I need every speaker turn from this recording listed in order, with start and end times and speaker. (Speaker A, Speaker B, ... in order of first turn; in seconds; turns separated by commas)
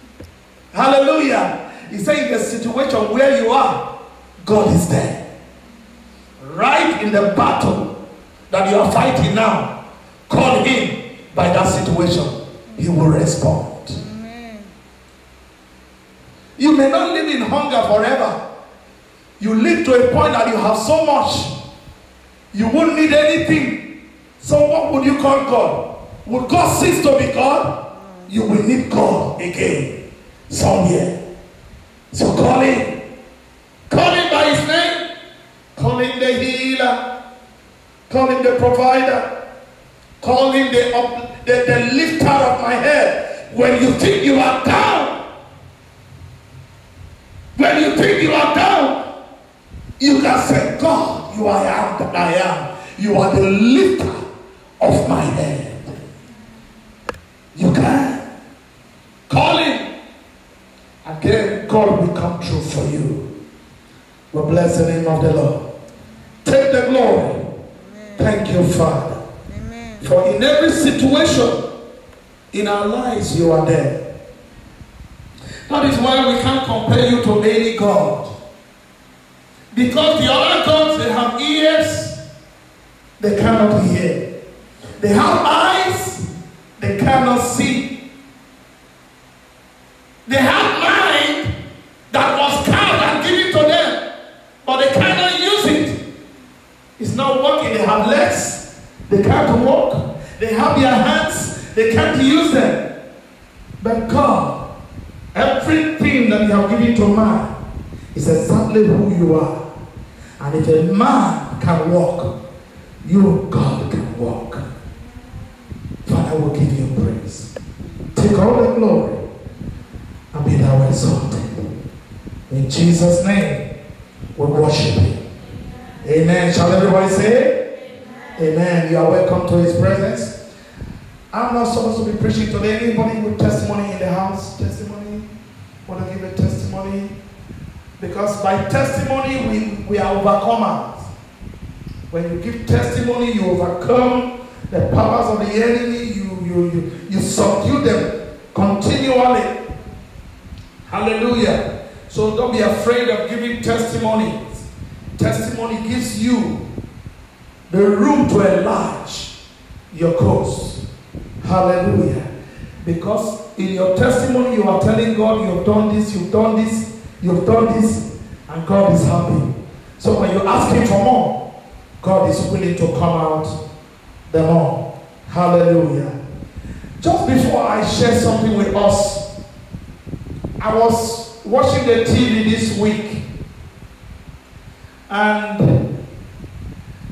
Speaker A: 0.7-3.9, Speaker A: 4.4-5.2, Speaker A: 6.4-7.9, Speaker A: 8.5-9.7, Speaker A: 10.3-14.0, Speaker B: 13.9-14.7, Speaker A: 16.6-18.4, Speaker A: 19.4-21.5, Speaker A: 22.5-23.9, Speaker A: 24.4-31.2, Speaker A: 32.1-33.0, Speaker A: 33.9-35.1, Speaker A: 35.7-37.0, Speaker A: 38.1-39.3, Speaker A: 40.2-45.2, Speaker A: 47.5-49.0, Speaker A: 50.0-54.2, Speaker A: 54.8-56.0, Speaker A: 57.5-58.2, Speaker A: 59.3-59.9, Speaker A: 61.0-63.3, Speaker A: 64.3-65.7, Speaker A: 66.4-67.5, Speaker B: 67.9-68.4, Speaker A: 68.2-69.2, Speaker B: 69.5-70.0, Speaker A: 70.0-71.7, Speaker A: 72.5-74.0, Speaker A: 75.7-78.3, Speaker A: 79.7-82.2, Speaker A: 83.2-84.2, Speaker A: 85.0-86.3, Speaker A: 86.8-88.0, Speaker A: 90.2-91.5, Speaker A: 92.1-94.0, Speaker A: 94.6-96.0, Speaker A: 97.0-102.8, Speaker A: 103.8-104.6, Speaker A: 105.3-107.5, Speaker A: 108.1-109.7, Speaker A: 110.4-112.3, Speaker A: 113.0-114.7, Speaker A: 116.0-117.5, Speaker A: 118.1-119.2, Speaker A: 120.3-121.7, Speaker A: 122.5-123.7, Speaker A: 124.3-125.2, Speaker A: 126.0-127.7, Speaker B: 127.9-128.3, Speaker A: 128.3-130.4, Speaker A: 131.3-135.3, Speaker A: 135.8-137.1, Speaker A: 138.0-141.1, Speaker A: 142.1-149.6, Speaker A: 150.9-156.6, Speaker A: 157.7-159.3, Speaker A: 159.9-160.8, Speaker A: 161.4-162.3, Speaker A: 162.8-171.4, Speaker A: 172.0-173.6, Speaker A: 174.3-176.2, Speaker A: 177.0-179.2, Speaker A: 180.6-183.2, Speaker A: 185.1-185.9